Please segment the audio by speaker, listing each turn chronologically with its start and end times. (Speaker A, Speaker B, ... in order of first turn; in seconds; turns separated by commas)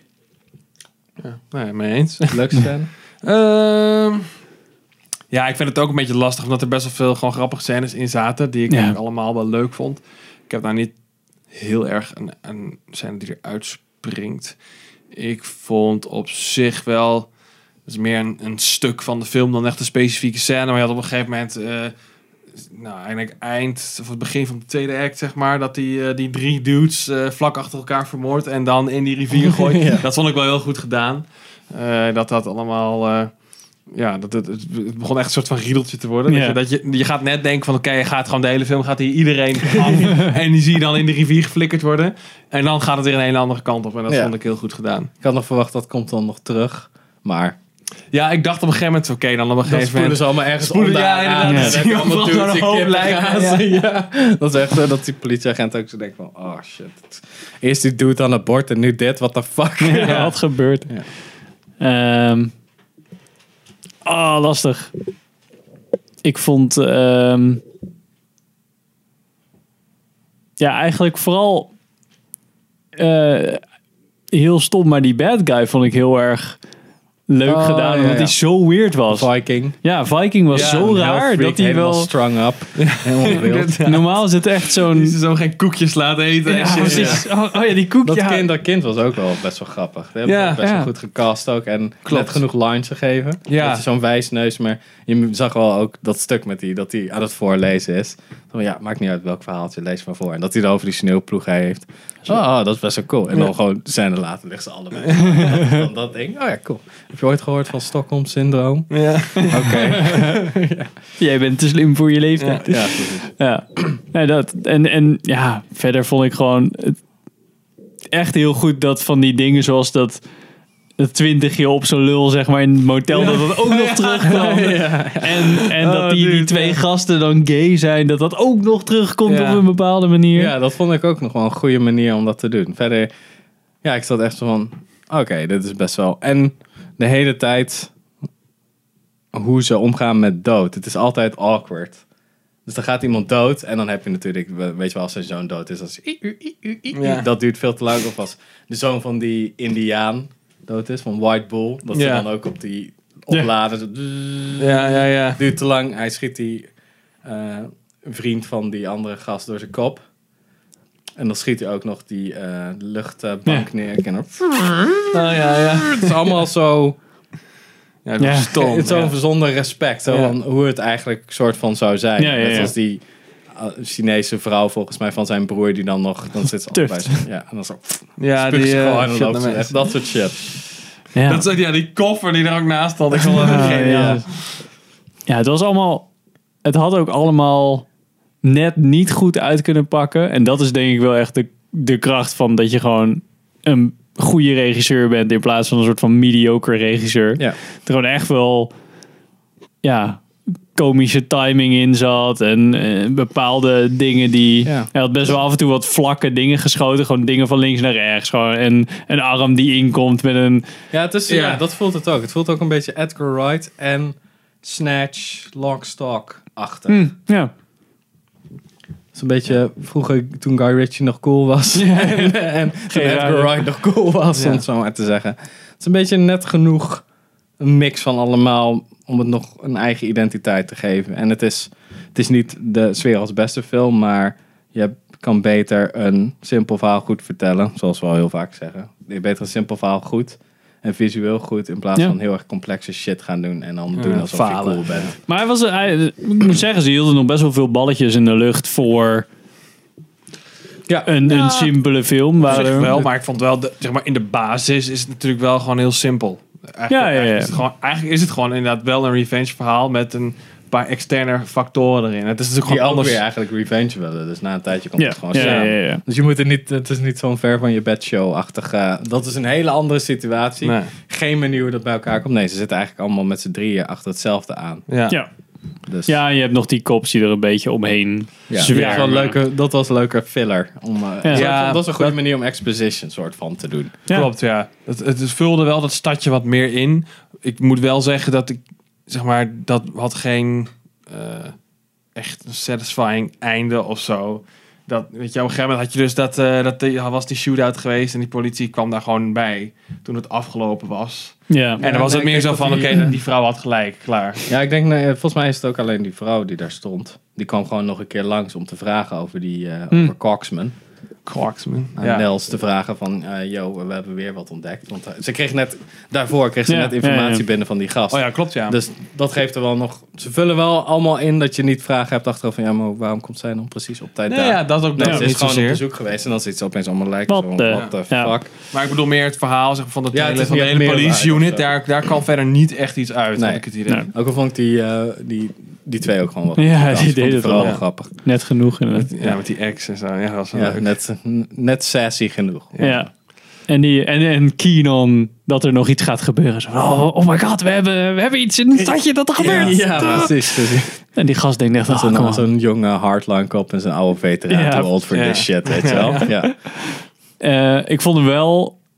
Speaker A: 1.2-4.3, Speaker B: 2.3-2.9, Speaker A: 5.3-21.9, Speaker C: 8.7-9.0, Speaker A: 22.5-45.1, Speaker B: 29.4-30.0, Speaker C: 36.3-36.6, Speaker B: 44.1-44.4, Speaker B: 45.2-47.6, Speaker A: 48.1-53.7, Speaker B: 49.6-61.1, Speaker C: 51.4-51.8, Speaker C: 59.8-61.2, Speaker A: 60.0-60.4, Speaker C: 61.8-62.5, Speaker C: 64.0-64.9, Speaker C: 66.2-67.6, Speaker C: 70.6-71.7, Speaker C: 73.0-73.6, Speaker C: 74.3-76.6, Speaker C: 77.3-82.1, Speaker B: 77.5-79.8, Speaker B: 80.5-83.9, Speaker A: 80.5-80.9, Speaker A: 82.8-87.3, Speaker C: 83.8-85.2, Speaker C: 86.5-88.5, Speaker B: 86.6-87.5, Speaker B: 88.0-110.9, Speaker A: 90.2-90.6, Speaker C: 90.6-90.9, Speaker A: 92.0-92.4, Speaker A: 93.5-93.8, Speaker A: 105.0-105.4, Speaker A: 108.9-110.1, Speaker C: 111.2-117.0, Speaker B: 112.7-113.5, Speaker C: 118.1-120.2, Speaker C: 121.0-130.5, Speaker A: 123.1-124.6, Speaker B: 124.3-125.6, Speaker A: 125.8-126.8, Speaker A: 129.2-129.6, Speaker B: 130.3-133.1, Speaker B: 133.8-137.9, Speaker B: 139.3-142.0, Speaker B: 142.6-156.7, Speaker A: 146.9-147.3, Speaker A: 151.9-152.3, Speaker A: 154.6-155.4, Speaker B: 157.2-160.1, Speaker B: 161.2-167.0, Speaker A: 165.1-166.2, Speaker A: 168.0-170.3, Speaker C: 168.2-168.5, Speaker B: 168.5-180.6, Speaker C: 172.2-172.7, Speaker C: 176.7-177.3, Speaker A: 178.2-180.1, Speaker C: 181.1-181.4, Speaker A: 181.2-184.6, Speaker B: 183.3-184.2, Speaker C: 183.4-184.5, Speaker C: 185.2-186.1, Speaker C: 186.6-187.9, Speaker C: 188.4-198.7, Speaker C: 199.8-210.7, Speaker B: 204.6-205.3, Speaker B: 210.9-217.2, Speaker A: 211.3-211.6, Speaker C: 216.9-217.5, Speaker B: 219.1-227.1, Speaker C: 221.7-223.6, Speaker A: 224.3-224.6, Speaker B: 227.6-245.1, Speaker A: 243.9-245.2, Speaker C: 245.3-249.3, Speaker B: 250.9-251.1, Speaker C: 251.0-252.9, Speaker A: 251.2-263.2, Speaker B: 252.4-253.1, Speaker C: 256.9-257.5, Speaker B: 262.6-275.2, Speaker C: 265.0-266.0, Speaker A: 265.3-265.7, Speaker A: 270.6-270.9, Speaker A: 274.9-275.2, Speaker C: 275.1-279.4, Speaker B: 275.8-276.2, Speaker B: 278.5-284.0, Speaker A: 278.7-279.3, Speaker C: 281.2-281.5, Speaker A: 281.3-282.2, Speaker A: 284.1-304.5, Speaker C: 301.5-301.8, Speaker B: 301.8-303.1, Speaker B: 304.5-310.7, Speaker A: 311.2-312.3, Speaker B: 312.0-328.5, Speaker C: 316.7-317.4, Speaker A: 318.1-318.8, Speaker A: 324.3-325.8, Speaker C: 327.3-328.3, Speaker A: 327.7-334.1, Speaker B: 330.1-331.8, Speaker B: 333.3-338.6, Speaker C: 336.6-339.1, Speaker A: 338.9-340.9, Speaker B: 340.5-343.1, Speaker A: 342.7-343.1, Speaker C: 342.8-352.5, Speaker B: 349.4-351.2, Speaker A: 349.5-350.3, Speaker B: 351.8-356.6, Speaker C: 354.5-354.9, Speaker A: 355.1-356.2, Speaker C: 355.9-358.8